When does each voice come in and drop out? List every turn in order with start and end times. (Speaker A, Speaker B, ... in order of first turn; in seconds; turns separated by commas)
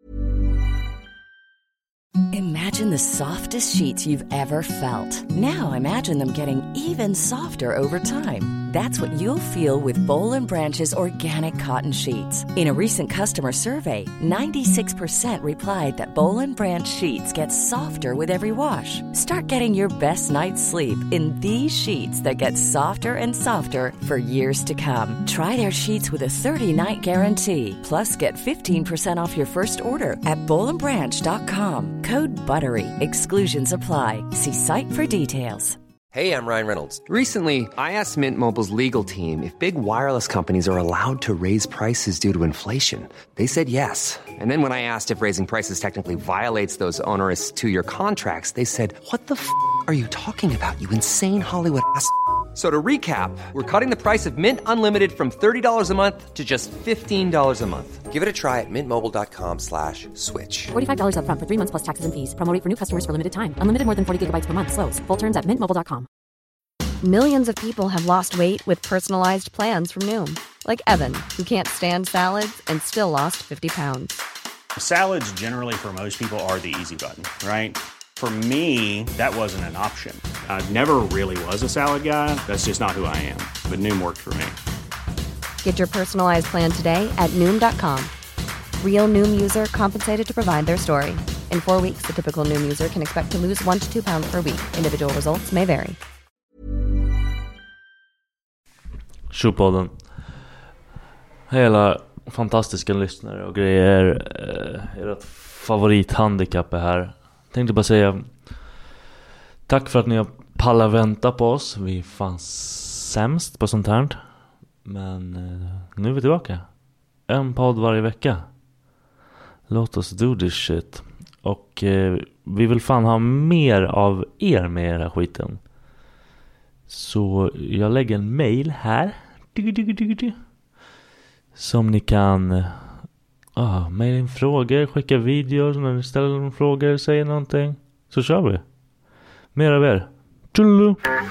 Speaker A: 2.3-35.8, Speaker B: 36.1-60.7, Speaker C: 60.7-66.1, Speaker D: 67.0-74.2, Speaker E: 74.8-84.5, Speaker D: 85.6-88.1, Speaker D: 88.8-96.0, Speaker F: 99.3-99.9, Speaker F: 101.5-108.4, Speaker F: 109.7-114.2, Speaker F: 114.8-116.7, Speaker F: 117.3-118.5, Speaker F: 119.7-125.6, Speaker F: 126.9-130.4, Speaker F: 131.5-133.0, Speaker F: 133.6-138.6, Speaker F: 139.5-141.0